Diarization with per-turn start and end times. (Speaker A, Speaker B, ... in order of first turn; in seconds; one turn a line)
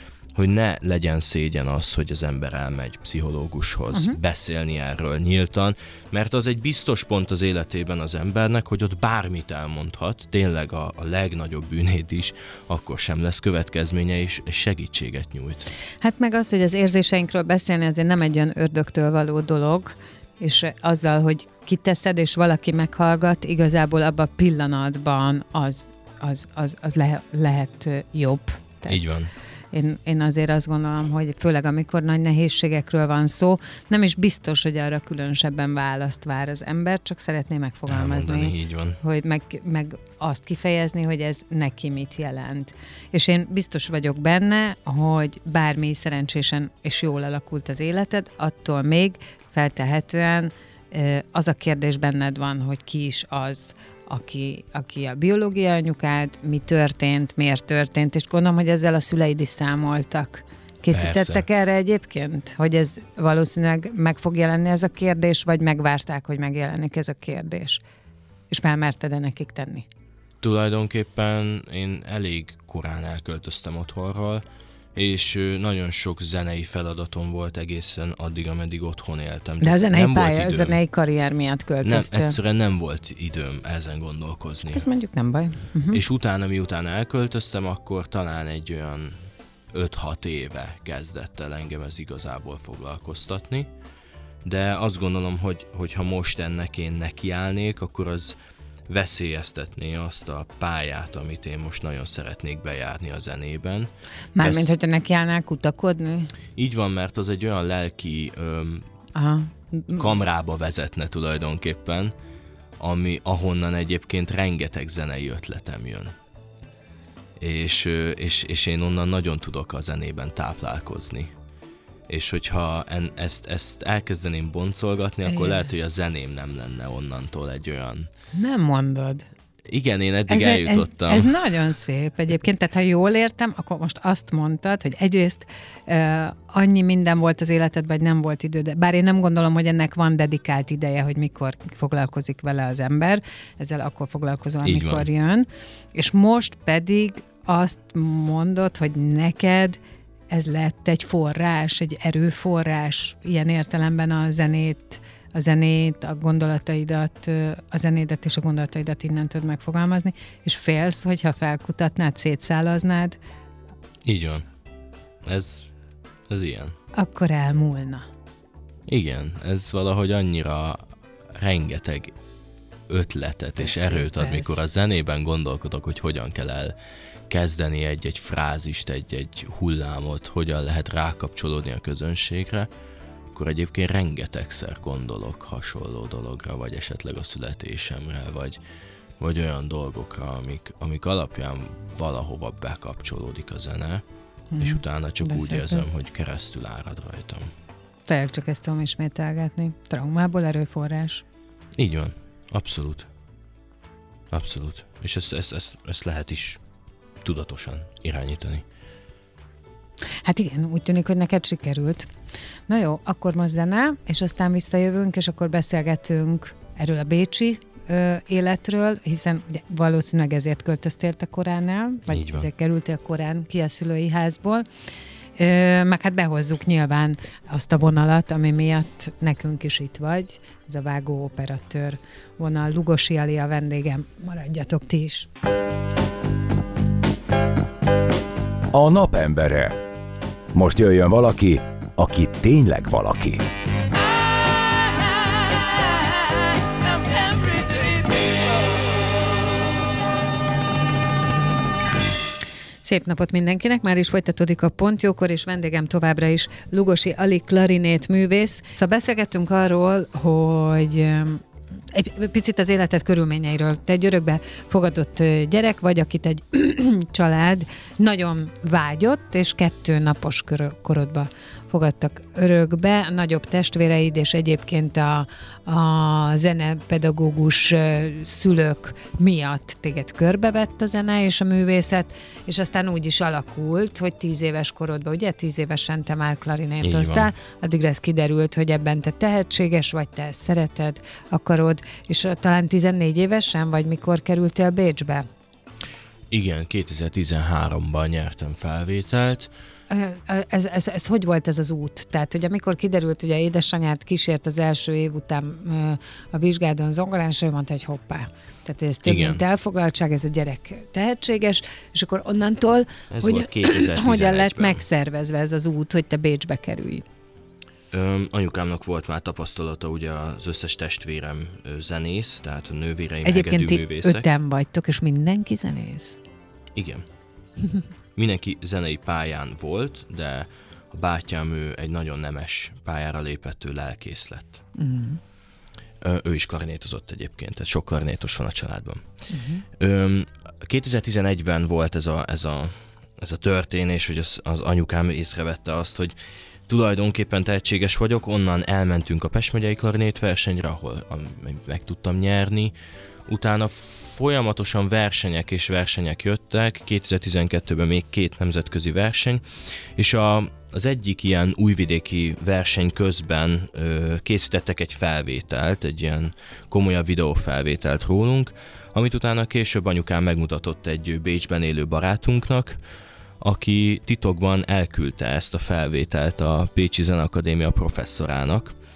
Speaker A: 0.3-15.7
Speaker B: 16.0-29.1
Speaker A: 28.9-29.3
Speaker B: 29.7-67.8
Speaker A: 37.9-39.0
Speaker A: 60.9-61.4
Speaker B: 68.5-69.8
Speaker A: 70.4-74.4
Speaker A: 74.9-80.8
Speaker B: 79.6-82.4
Speaker A: 81.8-84.8
Speaker B: 84.7-86.0
Speaker A: 85.9-89.2
Speaker A: 89.7-93.7
Speaker A: 94.4-98.3
Speaker A: 98.9-104.7
Speaker B: 104.4-106.3
Speaker A: 106.5-108.8
Speaker B: 109.1-110.1
Speaker A: 110.0-112.1
Speaker A: 112.8-116.1
Speaker A: 117.4-121.3
Speaker A: 122.1-128.1
Speaker B: 125.2-125.6
Speaker B: 128.3-129.3
Speaker A: 129.7-131.4
Speaker B: 130.3-149.8
Speaker A: 144.6-145.1
Speaker B: 150.3-163.2
Speaker A: 164.0-164.4
Speaker A: 165.2-165.7
Speaker A: 166.3-166.8
Speaker B: 166.9-168.1
Speaker A: 168.9-170.8
Speaker A: 171.4-172.1
Speaker A: 172.9-176.7
Speaker B: 173.6-174.6
Speaker A: 177.3-182.7
Speaker A: 183.3-188.6
Speaker A: 189.2-194.0
Speaker B: 194.5-195.9
Speaker A: 194.6-197.5
Speaker B: 198.1-201.2
Speaker A: 201.8-203.1
Speaker A: 204.3-206.6
Speaker A: 207.2-208.6
Speaker B: 210.2-212.1
Speaker B: 212.7-224.7
Speaker A: 222.1-222.5
Speaker B: 225.4-235.3
Speaker C: 238.7-239.8
Speaker C: 240.5-243.4
Speaker B: 252.8-295.3
Speaker A: 286.8-287.3
Speaker A: 296.3-299.5
Speaker B: 299.9-317.0
Speaker A: 309.1-309.4
Speaker A: 313.1-314.8
Speaker A: 317.9-324.2
Speaker B: 323.2-326.2
Speaker A: 326.7-327.0
Speaker A: 328.1-334.6
Speaker B: 334.8-335.2
Speaker A: 336.0-339.0
Speaker B: 339.3-339.6
Speaker A: 339.8-346.1
Speaker A: 346.7-352.7
Speaker A: 353.3-359.4
Speaker A: 359.9-372.8
Speaker A: 373.4-378.7